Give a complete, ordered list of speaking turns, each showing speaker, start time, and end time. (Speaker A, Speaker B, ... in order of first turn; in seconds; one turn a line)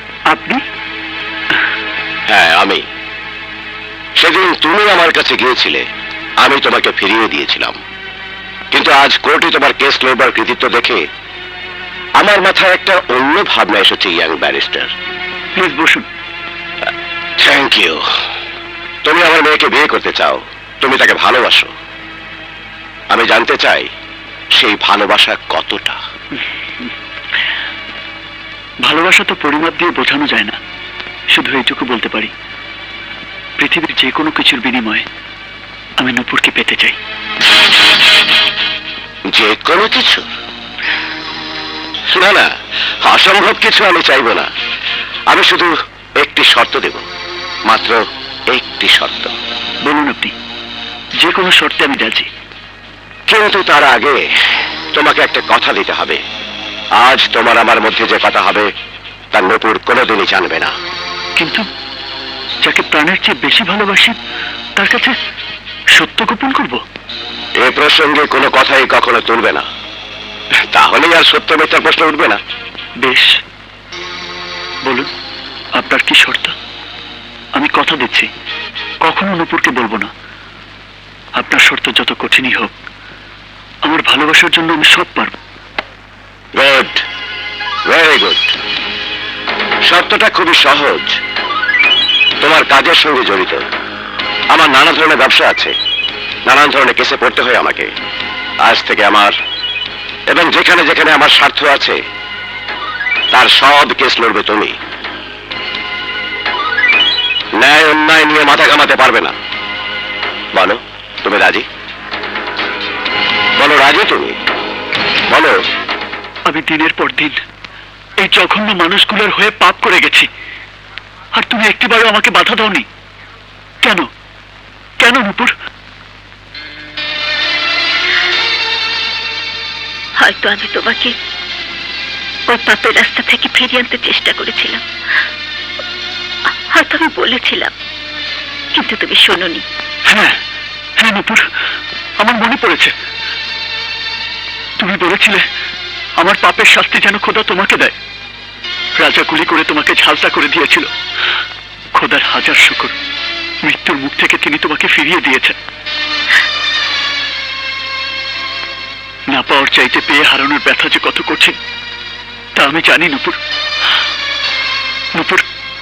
Speaker A: 0.3-0.6
Speaker B: 2.3-2.8
Speaker B: 4.2-5.8
Speaker B: 6.4-7.8
Speaker B: 8.7-11.0
Speaker B: 12.2-14.9
Speaker A: 15.6-16.1
Speaker B: 17.4-18.0
Speaker B: 19.1-21.7
Speaker B: 23.1-23.9
Speaker B: 24.6-26.0
Speaker A: 28.8-30.6
Speaker A: 31.3-32.3
Speaker A: 33.6-35.0
Speaker A: 36.0-37.0
Speaker B: 39.3-40.3
Speaker B: 42.1-42.5
Speaker B: 43.0-44.5
Speaker B: 45.3-47.0
Speaker B: 47.7-48.0
Speaker B: 48.5-49.3
Speaker A: 49.8-50.3
Speaker A: 51.2-52.3
Speaker B: 53.3-54.2
Speaker B: 54.9-56.2
Speaker B: 57.0-58.7
Speaker B: 59.3-60.7
Speaker A: 61.4-61.6
Speaker A: 62.6-64.2
Speaker A: 64.8-65.1
Speaker A: 66.0-66.8
Speaker B: 67.6-69.7
Speaker B: 70.7-72.4
Speaker A: 73.0-73.3
Speaker A: 75.8-76.5
Speaker A: 77.6-78.3
Speaker A: 79.0-80.1
Speaker A: 81.4-82.7
Speaker A: 83.9-85.3
Speaker B: 86.6-87.0
Speaker B: 87.9-88.5
Speaker B: 89.9-91.2
Speaker B: 92.4-93.6
Speaker B: 94.5-95.7
Speaker B: 96.5-97.9
Speaker B: 98.6-99.3
Speaker B: 100.3-102.0
Speaker B: 103.3-104.7
Speaker B: 107.6-109.3
Speaker B: 110.5-111.6
Speaker B: 113.6-114.3
Speaker A: 116.5-117.4
Speaker A: 118.2-120.3
Speaker A: 121.3-122.9
Speaker A: 125.0-125.5
Speaker C: 130.2-131.2
Speaker C: 132.5-134.8
Speaker C: 136.7-137.7
Speaker C: 138.7-139.7
Speaker A: 140.1-140.4
Speaker A: 141.0-141.4
Speaker A: 142.2-142.9
Speaker A: 144.8-145.4
Speaker A: 146.2-148.0
Speaker A: 149.0-150.9
Speaker A: 151.9-152.9
Speaker A: 153.6-155.6
Speaker A: 159.3-161.6
Speaker A: 162.6-163.4
Speaker A: 165.2-165.4